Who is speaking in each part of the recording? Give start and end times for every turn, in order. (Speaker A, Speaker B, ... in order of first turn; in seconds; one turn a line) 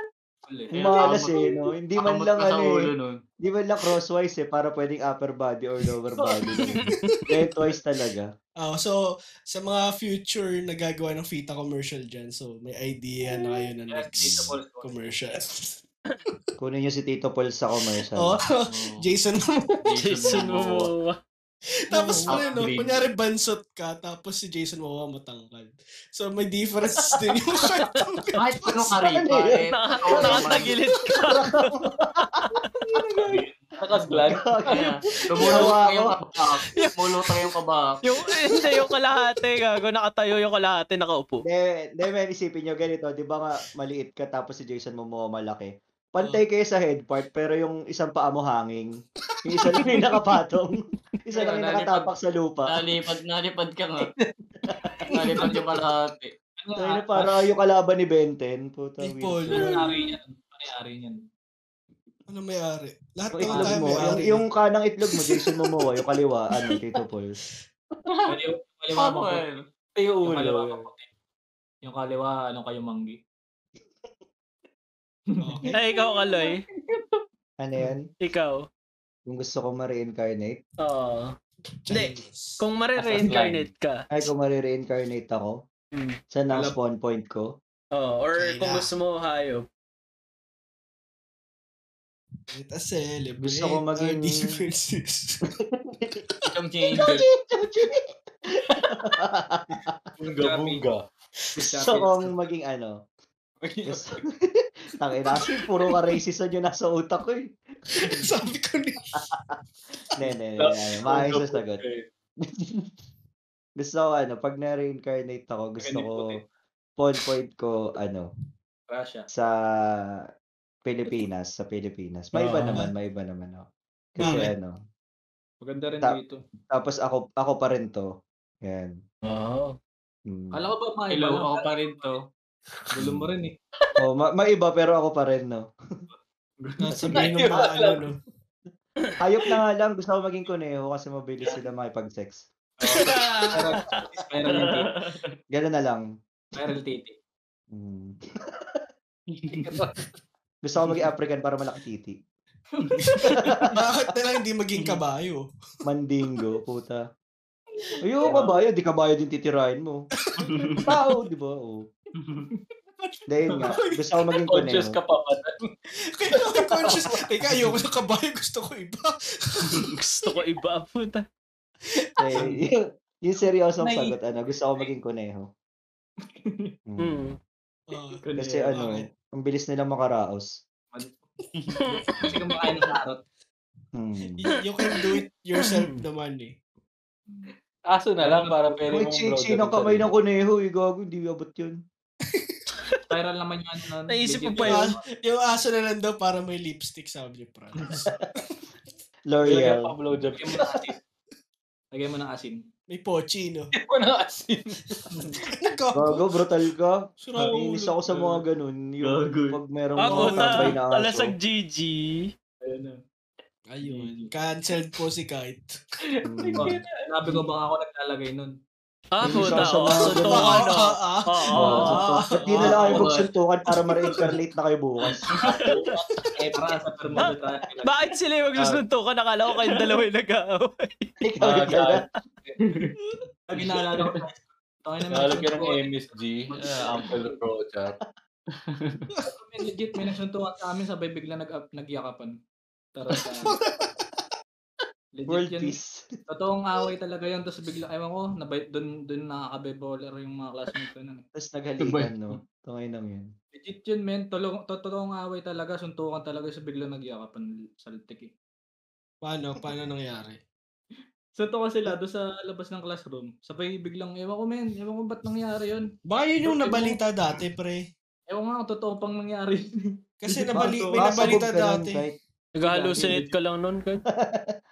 Speaker A: 0.5-0.7
Speaker B: 0.7-1.5
Speaker C: 0.7-2.9
Speaker B: 2.0-3.2
Speaker C: 3.4-8.3
Speaker D: 6.9-7.2
Speaker D: 8.6-16.4
Speaker A: 13.9-14.9
Speaker C: 16.6-18.4
Speaker D: 17.9-19.7
Speaker B: 18.7-19.0
Speaker B: 19.8-20.9
Speaker E: 20.0-21.1
Speaker D: 21.9-28.9
Speaker B: 22.2-23.0
Speaker B: 28.4-30.7
Speaker C: 28.9-33.0
Speaker E: 29.7-31.9
Speaker F: 33.2-34.9
Speaker C: 34.3-34.8
Speaker B: 34.6-38.0
Speaker C: 35.4-36.1
Speaker E: 38.0-41.4
Speaker D: 38.5-38.9
Speaker C: 41.5-48.9
Speaker C: 49.4-52.7
Speaker B: 51.3-52.1
Speaker B: 52.7-54.1
Speaker F: 54.0-54.3
Speaker C: 54.7-55.1
Speaker B: 55.1-56.3
Speaker A: 56.6-57.3
Speaker C: 56.8-59.7
Speaker D: 59.0-59.7
Speaker A: 59.5-61.2
Speaker E: 59.6-60.1
Speaker D: 62.3-64.4
Speaker A: 63.4-64.1
Speaker C: 63.4-67.4
Speaker B: 68.1-68.3
Speaker A: 68.3-69.4
Speaker B: 68.9-69.6
Speaker F: 70.0-70.9
Speaker A: 70.2-71.1
Speaker A: 71.8-73.2
Speaker D: 75.4-75.7
Speaker E: 75.7-76.6
Speaker C: 77.6-78.1
Speaker E: 78.2-78.7
Speaker C: 79.3-80.6
Speaker E: 80.8-81.3
Speaker D: 81.8-82.6
Speaker E: 81.9-84.3
Speaker F: 83.1-83.7
Speaker C: 84.1-85.6
Speaker C: 86.3-87.5
Speaker A: 86.5-86.8
Speaker E: 87.9-89.7
Speaker D: 88.4-88.9
Speaker D: 92.5-95.5
Speaker C: 93.4-94.6
Speaker C: 95.8-96.2
Speaker D: 96.1-96.4
Speaker B: 96.5-97.2
Speaker C: 97.0-98.0
Speaker C: 98.6-99.9
Speaker F: 100.2-101.0
Speaker A: 100.4-100.8
Speaker A: 101.5-102.3
Speaker C: 101.6-103.0
Speaker F: 103.6-104.2
Speaker C: 103.9-107.5
Speaker D: 105.2-105.6
Speaker D: 108.0-109.3
Speaker C: 110.2-111.8
Speaker F: 110.6-112.0
Speaker C: 112.4-112.9
Speaker C: 113.8-116.4
Speaker A: 115.8-116.4
Speaker C: 117.0-118.3
Speaker A: 118.9-119.3
Speaker C: 119.3-120.2
Speaker C: 120.8-124.7
Speaker E: 122.4-122.9
Speaker A: 125.6-126.4
Speaker C: 126.7-128.1
Speaker C: 128.6-128.9
Speaker B: 129.3-129.7
Speaker C: 130.3-130.6
Speaker A: 130.5-132.2
Speaker B: 131.1-132.2
Speaker A: 132.9-133.5
Speaker C: 133.0-133.3
Speaker C: 134.0-135.6
Speaker A: 136.1-136.7
Speaker D: 136.8-138.1
Speaker C: 136.9-137.8
Speaker F: 137.1-138.0
Speaker C: 139.2-142.4
Speaker A: 142.8-144.9
Speaker E: 142.9-144.0
Speaker B: 144.5-145.1
Speaker C: 145.5-146.0
Speaker A: 146.5-147.1
Speaker C: 147.7-148.8
Speaker B: 149.4-149.7
Speaker A: 149.5-149.9
Speaker C: 150.6-152.2
Speaker A: 152.8-153.1
Speaker D: 153.0-155.4
Speaker C: 153.3-153.7
Speaker C: 155.8-157.0
Speaker C: 158.0-160.1
Speaker A: 158.2-158.5
Speaker D: 160.4-160.9
Speaker B: 160.5-160.8
Speaker C: 160.8-161.8
Speaker C: 163.3-164.9
Speaker F: 164.5-165.7
Speaker D: 166.1-170.0
Speaker F: 166.3-167.1
Speaker E: 169.9-171.2
Speaker D: 171.9-172.5
Speaker C: 172.2-175.5
Speaker A: 176.2-176.7
Speaker C: 176.9-177.3
Speaker E: 177.0-177.3
Speaker D: 177.9-178.2
Speaker A: 178.2-179.0
Speaker C: 178.3-180.5
Speaker A: 180.9-181.2
Speaker D: 181.7-182.3
Speaker E: 181.8-182.2
Speaker A: 182.2-183.2
Speaker C: 183.9-184.5
Speaker D: 184.4-186.5
Speaker E: 185.6-186.0
Speaker A: 187.3-187.5
Speaker F: 187.9-190.1
Speaker A: 188.2-188.8
Speaker C: 188.9-191.8
Speaker D: 192.3-192.6
Speaker A: 193.1-195.0
Speaker E: 194.1-194.9
Speaker D: 194.6-198.0
Speaker C: 199.3-199.9
Speaker F: 199.4-200.8
Speaker A: 200.4-200.9
Speaker A: 201.9-202.6
Speaker D: 202.9-203.7
Speaker F: 203.7-205.0
Speaker D: 205.6-206.4
Speaker C: 205.9-211.3
Speaker D: 207.2-207.9
Speaker B: 209.0-209.6
Speaker E: 210.0-212.3
Speaker D: 210.1-210.7
Speaker A: 212.6-213.0
Speaker D: 213.7-215.7
Speaker A: 213.8-214.3
Speaker C: 216.2-216.7
Speaker A: 216.6-218.5
Speaker E: 219.1-222.0
Speaker C: 219.2-220.7
Speaker D: 220.0-223.1
Speaker C: 221.5-225.3
Speaker B: 222.5-223.3
Speaker B: 225.5-225.9
Speaker A: 226.3-227.9
Speaker E: 227.2-231.1
Speaker C: 231.2-232.0
Speaker F: 231.4-232.0
Speaker A: 232.6-232.9
Speaker A: 233.5-236.0
Speaker F: 235.1-237.9
Speaker A: 236.5-237.3
Speaker B: 238.7-239.0
Speaker A: 239.3-242.3
Speaker A: 242.9-243.6
Speaker D: 243.1-244.1
Speaker A: 245.2-245.8
Speaker C: 245.3-246.1
Speaker A: 246.3-251.2
Speaker C: 251.3-253.3
Speaker B: 251.8-252.1
Speaker A: 253.5-258.3
Speaker D: 259.2-260.4
Speaker A: 261.4-265.9
Speaker D: 266.1-267.8
Speaker A: 266.5-266.9
Speaker A: 268.3-269.6
Speaker D: 270.2-272.0
Speaker A: 270.3-271.4
Speaker C: 270.6-272.1
Speaker E: 272.5-274.0
Speaker A: 272.6-273.3
Speaker C: 274.2-274.5